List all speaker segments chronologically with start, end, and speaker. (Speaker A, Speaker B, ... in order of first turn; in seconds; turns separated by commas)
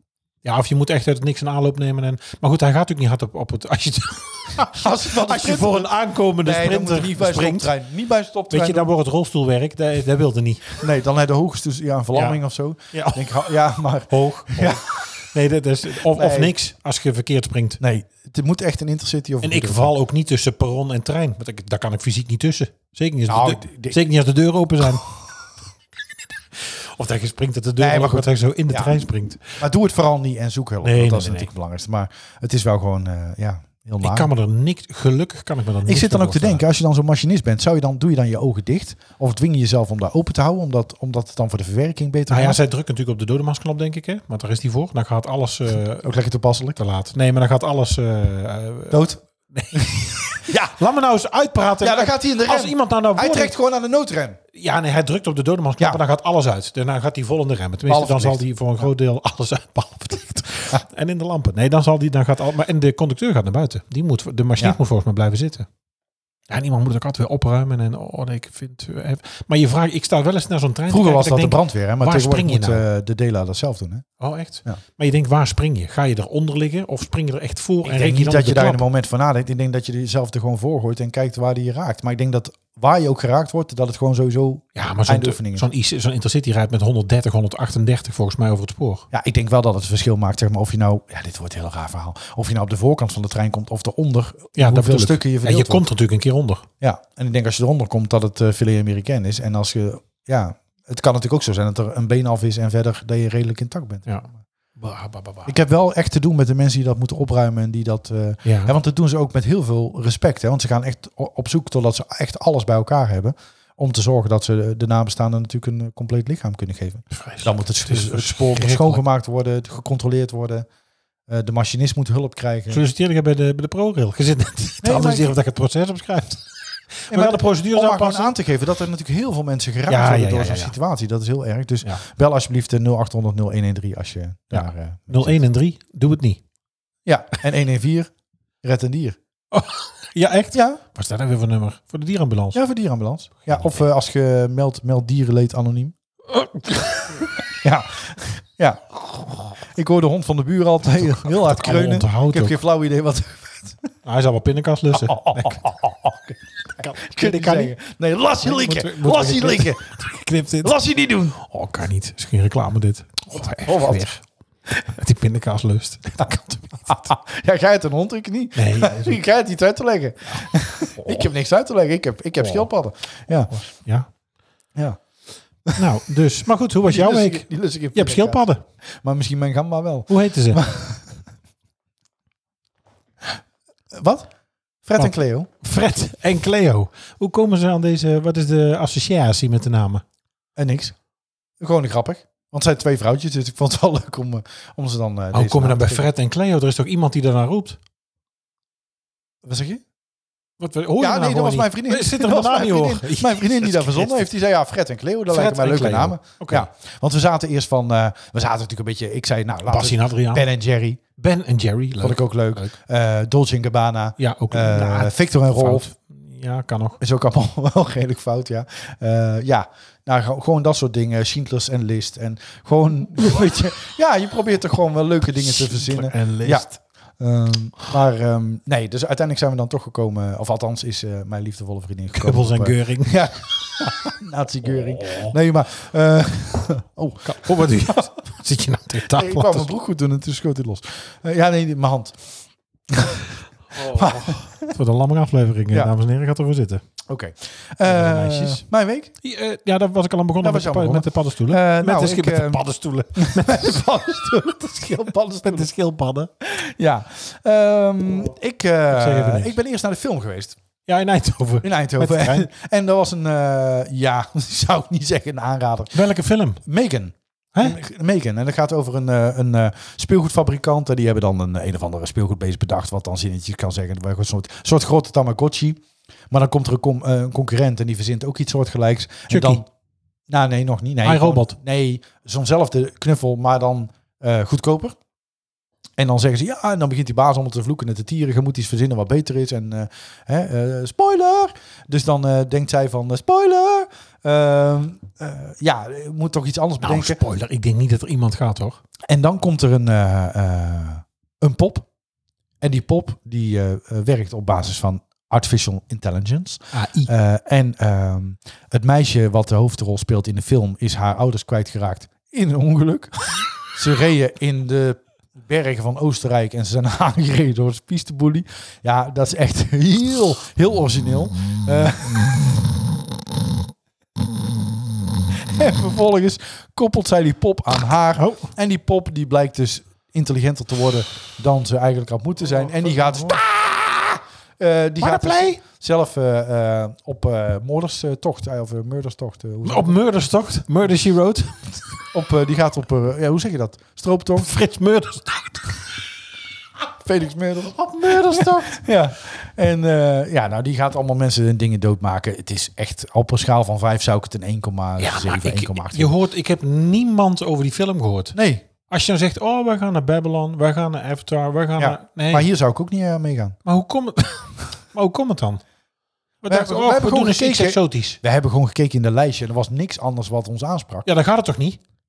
Speaker A: 0.4-7.7, Speaker B: 4.7-5.9, Speaker B: 6.4-8.9, Speaker A: 8.5-10.8, Speaker B: 10.8-14.8, Speaker A: 12.1-12.4, Speaker A: 12.9-13.5, Speaker A: 14.1-17.8, Speaker B: 16.0-16.6, Speaker B: 17.8-19.9, Speaker A: 19.4-25.1, Speaker B: 23.3-24.0, Speaker A: 26.6-29.6, Speaker B: 27.8-29.0, Speaker B: 29.6-34.3, Speaker A: 30.8-31.5, Speaker A: 34.0-36.6, Speaker B: 35.9-42.6, Speaker A: 42.3-46.0, Speaker B: 46.0-46.8, Speaker A: 46.8-53.5, Speaker B: 48.9-49.2, Speaker B: 50.5-50.8, Speaker B: 51.8-54.4, Speaker A: 54.5-65.7, Speaker B: 57.9-58.8, Speaker A: 66.5-72.8, Speaker B: 70.9-74.1, Speaker A: 74.2-78.8, Speaker B: 77.8-85.7, Speaker A: 84.8-89.0, Speaker B: 89.1-95.8, Speaker A: 94.5-96.7, Speaker B: 96.8-104.4, Speaker A: 104.1-105.5, Speaker B: 105.5-120.7, Speaker A: 108.4-108.7, Speaker A: 117.1-119.0, Speaker B: 121.3-122.8, Speaker A: 122.7-128.3, Speaker B: 124.8-125.3, Speaker B: 127.1-135.3, Speaker A: 129.9-130.7, Speaker A: 134.5-136.4, Speaker B: 137.1-138.1, Speaker B: 138.6-139.2, Speaker A: 139.5-142.6, Speaker B: 140.5-140.8, Speaker B: 142.5-145.9, Speaker A: 146.4-147.1, Speaker B: 147.6-149.0, Speaker B: 149.6-153.9, Speaker A: 150.9-152.6, Speaker A: 154.0-155.6, Speaker B: 154.9-160.0, Speaker A: 156.8-157.7, Speaker A: 158.4-160.8, Speaker B: 160.6-161.4, Speaker A: 161.3-167.1, Speaker B: 163.4-164.0, Speaker B: 166.9-173.5, Speaker A: 168.6-169.2, Speaker A: 171.0-171.3, Speaker A: 172.4-172.7, Speaker A: 173.5-174.1, Speaker B: 174.7-175.0, Speaker A: 175.8-178.6, Speaker B: 176.9-181.2, Speaker A: 180.1-180.6, Speaker B: 183.9-184.3, Speaker B: 184.8-185.5, Speaker A: 185.0-190.0, Speaker B: 190.6-190.9, Speaker B: 191.6-196.1, Speaker A: 195.3-197.8, Speaker B: 199.4-199.8, Speaker A: 200.6-204.3, Speaker B: 201.0-211.0, Speaker A: 205.3-206.7, Speaker A: 209.7-210.5, Speaker A: 211.2-212.7, Speaker B: 212.0-215.9, Speaker A: 214.2-217.0, Speaker B: 217.0-226.7, Speaker A: 225.4-226.8, Speaker B: 227.2-238.1, Speaker A: 232.1-233.2, Speaker A: 234.7-235.3, Speaker A: 237.2-239.7, Speaker B: 239.1-242.2, Speaker B: 242.9-244.7, Speaker A: 243.7-246.8, Speaker B: 247.1-249.1, Speaker A: 247.8-248.6, Speaker A: 249.2-253.8, Speaker B: 250.4-252.6, Speaker B: 253.2-255.7, Speaker A: 255.4-256.3, Speaker B: 256.4-260.6, Speaker A: 258.9-259.6, Speaker A: 260.8-262.5, Speaker B: 261.6-266.0, Speaker A: 265.9-266.6, Speaker B: 266.6-279.7, Speaker A: 267.5-267.8, Speaker A: 279.3-279.6, Speaker B: 280.3-284.9, Speaker A: 281.0-281.6, Speaker B: 286.0-297.2, Speaker A: 296.8-298.8, Speaker B: 299.1-301.9, Speaker B: 302.6-322.5, Speaker A: 306.7-307.1, Speaker B: 325.3-340.0, Speaker A: 328.1-328.5, Speaker A: 332.5-333.4, Speaker A: 335.0-335.6, Speaker A: 339.6-341.8, Speaker B: 342.1-344.5, Speaker A: 344.4-345.8, Speaker B: 346.9-356.1, Speaker A: 347.7-348.8, Speaker A: 355.0-362.5, Speaker B: 358.3-358.6, Speaker B: 361.8-363.6, Speaker A: 363.6-365.6, Speaker A: 366.4-368.2, Speaker B: 366.5-371.1, Speaker A: 371.1-371.8